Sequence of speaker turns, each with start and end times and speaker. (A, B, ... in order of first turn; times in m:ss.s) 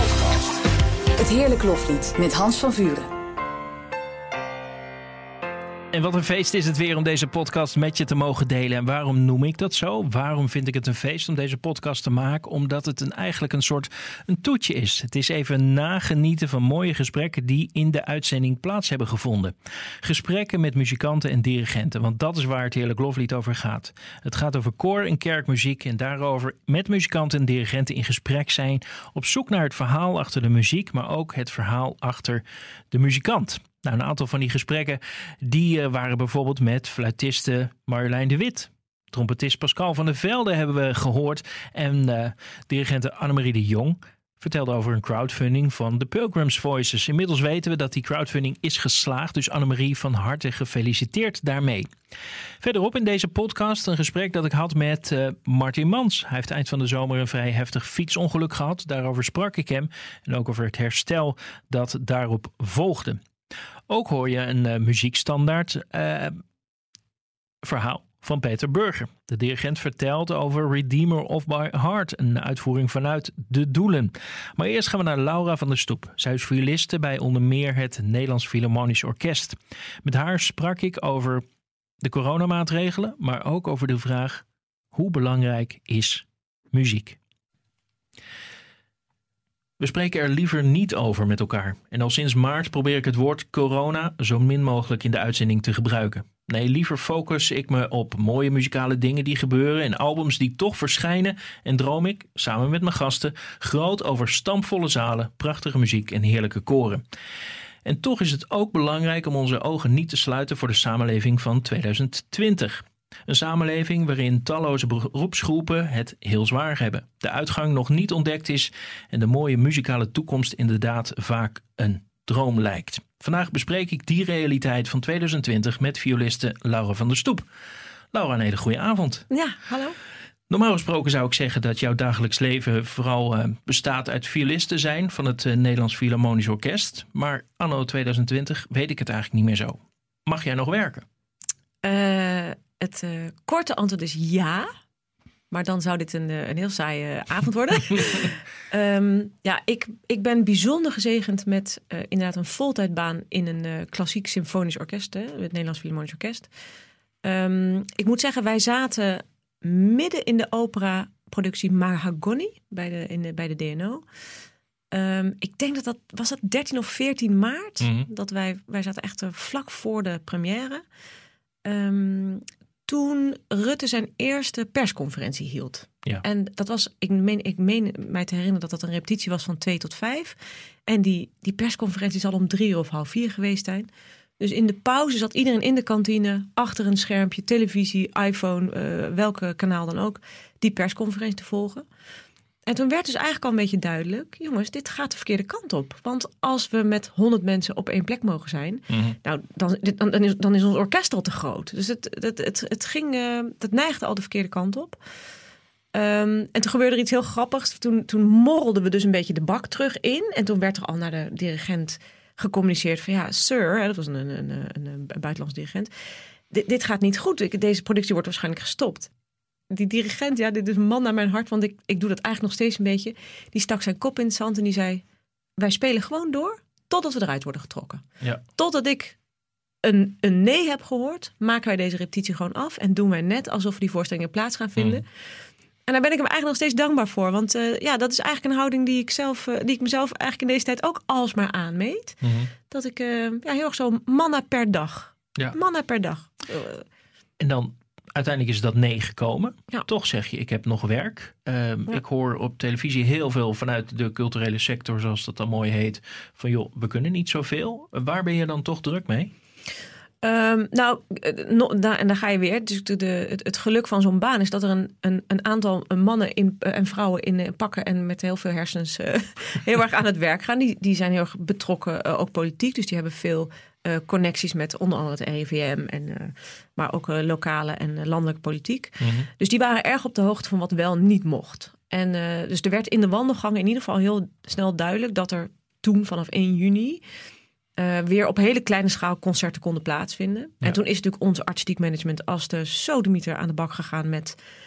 0:01.2-0:03.1 A
0:05.9-0:51.9 B
0:52.6-1:03.2 B
1:03.9-1:06.4 B
1:07.6-1:21.4 B
1:22.0-1:27.2 B
1:29.8-1:47.0 B
1:47.8-2:07.5 B
2:08.1-2:09.3 B
2:09.3-2:10.0 C
2:10.5-2:21.0 B
2:21.8-2:24.7 C
2:25.5-2:36.5 C
2:37.2-2:44.0 C
2:44.9-2:50.8 C
2:47.8-2:48.1 B
2:51.6-3:11.8 C
3:12.6-3:25.0 C
3:18.9-3:19.2 B
3:25.9-3:35.9 C
3:36.5-3:39.1 C
3:39.7-3:45.0 C
3:45.6-3:49.2 C
3:49.8-3:55.0 C
3:54.8-3:55.0 B
3:55.9-4:06.8 C
4:02.2-4:02.5 B
4:07.4-4:19.3 B
4:20.2-4:47.0 C
4:39.0-4:39.3 B
4:47.8-4:54.4 C